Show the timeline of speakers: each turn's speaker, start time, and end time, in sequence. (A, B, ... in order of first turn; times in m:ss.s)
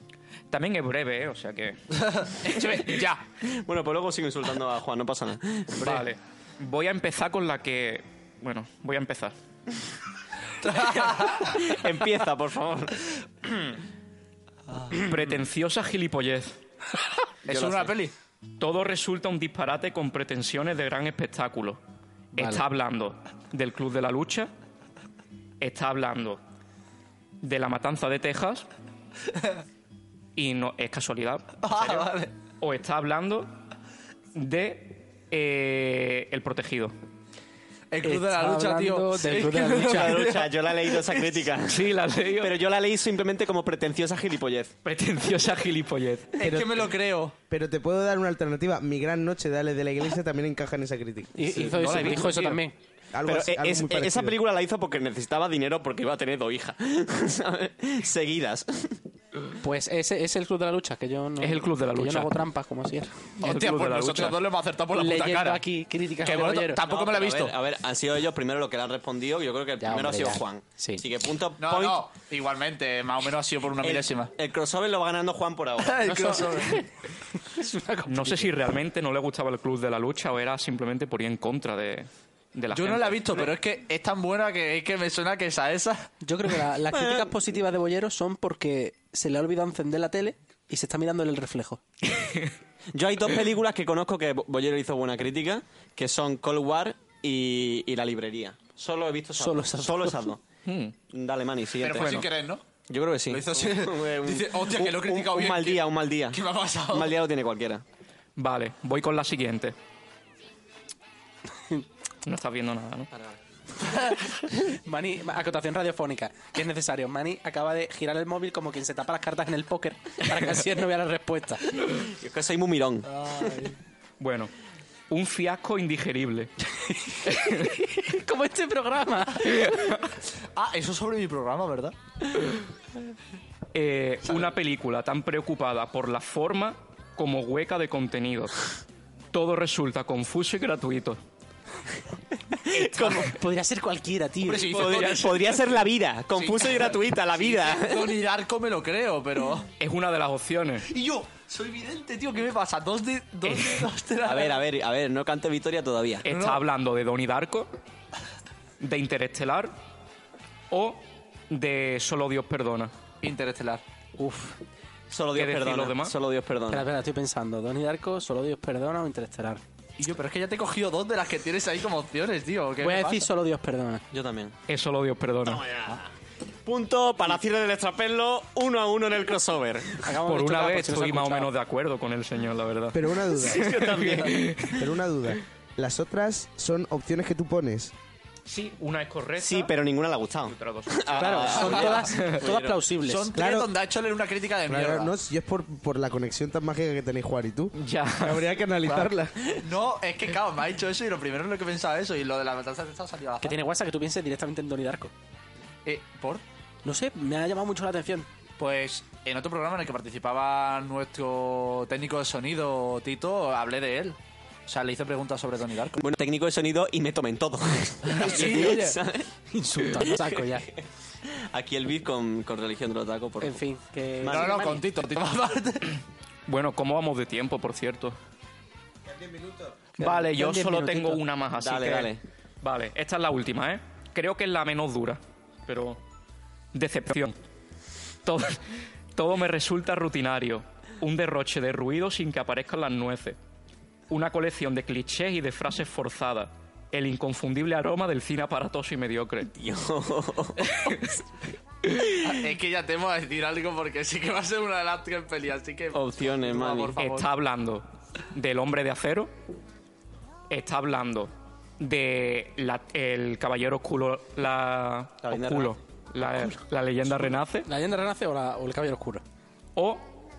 0:00.5-0:01.8 A
0:02.1-0:03.2 B
0:03.4-0:05.9 C
0:05.8-0:09.3 A
0:10.7-0:11.4 B
0:10.8-0:13.1 C
0:14.7-0:15.1 B
0:14.9-0:16.6 A
0:17.5-0:18.1 B
0:17.5-0:17.9 C
0:18.6-0:21.8 A
0:22.4-0:24.5 A
0:25.6-0:26.4 A
0:27.4-0:28.7 A
0:30.4-0:31.6 A
0:31.6-0:32.3 B
0:32.6-0:33.5 A
0:34.4-0:36.9 A
0:37.9-0:41.4 B
0:38.0-0:40.3 D
0:39.8-0:44.8 C
0:41.7-0:42.6 A
0:44.8-0:46.4 A
0:46.4-0:47.4 B
0:46.4-0:46.9 E
0:47.5-0:51.3 E
0:51.4-0:52.8 D
0:51.8-0:52.6 B
0:51.8-0:52.4 A
0:53.1-0:54.4 E
0:53.2-0:59.0 C
0:59.6-1:03.1 D
1:01.4-1:02.4 A
1:03.4-1:04.4 A
1:03.4-1:05.6 B
1:04.9-1:06.8 D
1:06.2-1:07.6 B
1:06.8-1:12.0 C
1:09.8-1:11.0 D
1:11.6-1:14.3 B
1:13.8-1:16.4 C
1:15.8-1:16.8 B
1:16.0-1:18.5 D
1:18.1-1:23.4 A
1:22.7-1:26.1 B
1:26.2-1:31.8 D
1:26.9-1:27.3 C
1:32.2-1:32.5 A
1:32.9-1:40.5 C
1:39.4-1:40.3 D
1:40.6-1:41.0 A
1:41.1-1:42.2 C
1:41.8-1:42.6 B
1:42.0-1:42.3 A
1:42.9-1:46.4 C
1:43.3-1:47.2 B
1:46.9-1:47.8 C
1:48.4-1:49.8 A
1:52.2-1:53.1 A
1:54.5-2:01.7 D
2:02.0-2:03.6 C
2:03.1-2:03.8 B
2:04.2-2:04.5 A
2:05.1-2:06.5 A
2:06.8-2:09.8 D
2:07.3-2:07.7 A
2:09.4-2:10.1 A
2:10.6-2:12.0 B
2:13.7-2:18.7 A
2:19.3-2:21.2 A
2:22.7-2:24.8 D
2:22.7-2:23.3 C
2:24.4-2:25.7 B
2:24.6-2:28.2 C
2:26.4-2:29.7 B
2:29.8-2:30.9 A
2:30.9-2:34.6 B
2:33.4-2:33.9 A
2:34.2-2:36.3 C
2:36.2-2:37.7 A
2:36.3-2:36.6 B
2:38.8-2:39.7 A
2:40.7-2:42.9 A
2:43.2-2:43.8 B
2:44.2-2:44.6 D
2:45.1-2:46.9 C
2:45.3-2:46.2 A
2:46.7-2:49.6 D
2:50.0-2:53.3 B
2:52.8-2:54.0 D
2:54.1-2:54.6 C
2:54.7-2:55.7 A
2:55.4-2:56.1 C
2:56.6-3:00.1 C
3:00.0-3:01.5 D
3:00.2-3:03.1 A
3:02.9-3:04.0 E
3:03.4-3:04.5 C
3:03.8-3:04.9 A
3:04.6-3:07.9 E
3:08.5-3:09.7 A
3:09.4-3:12.8 C
3:10.5-3:11.5 A
3:11.2-3:13.3 D
3:11.5-3:12.1 B
3:12.1-3:12.4 A
3:13.1-3:15.1 B
3:13.3-3:13.7 E
3:14.7-3:19.3 E
3:17.8-3:18.5 A
3:18.9-3:23.6 B
3:23.4-3:25.1 D
3:25.9-3:26.4 B
3:26.8-3:28.3 D
3:28.6-3:34.2 B
3:34.7-3:36.0 B
3:36.0-3:39.3 C
3:38.1-3:39.0 B
3:39.5-3:40.7 D
3:39.9-3:43.6 C
3:43.4-3:44.8 D
3:44.2-3:44.8 C
3:44.3-3:46.0 B
3:46.5-3:48.2 A
3:49.2-3:49.6 E
3:50.0-3:51.2 D
3:50.0-3:56.0 A
3:51.6-3:52.2 C
3:56.7-3:57.4 A
3:58.2-4:03.4 A
4:04.1-4:09.5 A
4:09.5-4:10.8 C
4:10.7-4:11.1 A
4:11.8-4:12.2 A
4:12.2-4:17.3 B
4:15.9-4:17.0 C
4:17.0-4:19.3 A
4:20.5-4:27.7 A
4:25.2-4:25.8 C
4:27.6-4:29.2 D
4:29.8-4:30.1 A